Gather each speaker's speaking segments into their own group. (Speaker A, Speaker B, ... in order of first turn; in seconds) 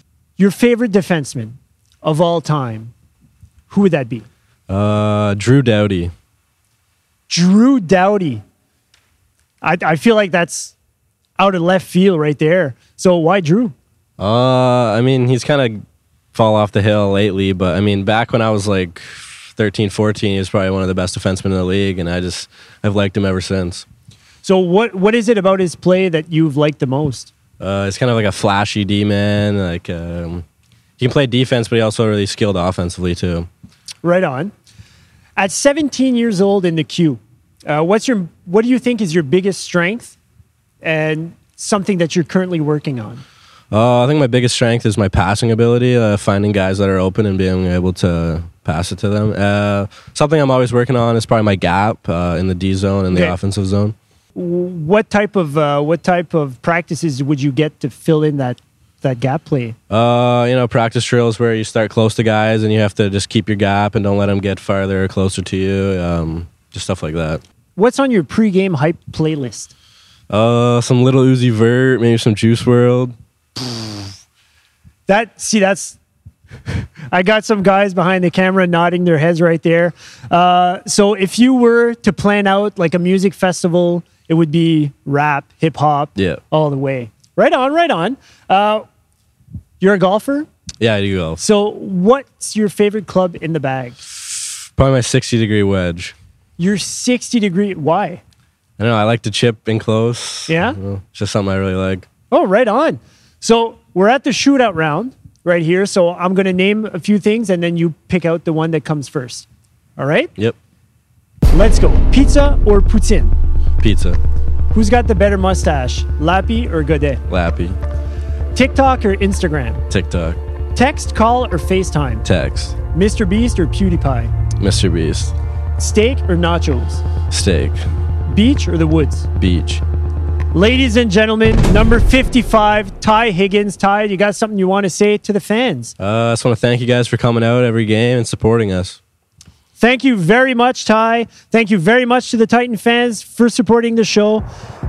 Speaker A: 0.4-2.9, 3.7-4.3, 7.3-8.4, 9.6-10.7, 11.4-13.8, 24.4-27.3, 34.0-34.5, 35.4-40.2, 40.8-43.2, 53.1-53.4, 54.3-59.8, 67.8-69.7, 75.1-76.0, 77.1-88.8, 89.8-90.5, 91.4-94.0, 96.6-98.2, 100.5-100.8, 102.3-109.5, 110.0-110.3, 111.5-113.3, 114.7-117.2, 118.5-119.8, 120.8-122.2, 122.9-124.3, 125.8-127.0, 128.3-129.3, 130.5-135.9, 139.8-144.5
Speaker B: 4.7-6.1, 14.2-15.8, 16.3-23.9, 27.6-30.4, 31.0-33.5, 43.7-53.9, 59.9-67.4, 70.3-73.1, 90.8-91.4, 94.8-96.2, 98.8-102.1, 113.8-114.2, 117.3-117.8, 119.9-120.4, 122.2-122.8, 124.6-125.3, 127.3-127.8, 129.4-129.8, 136.0-139.0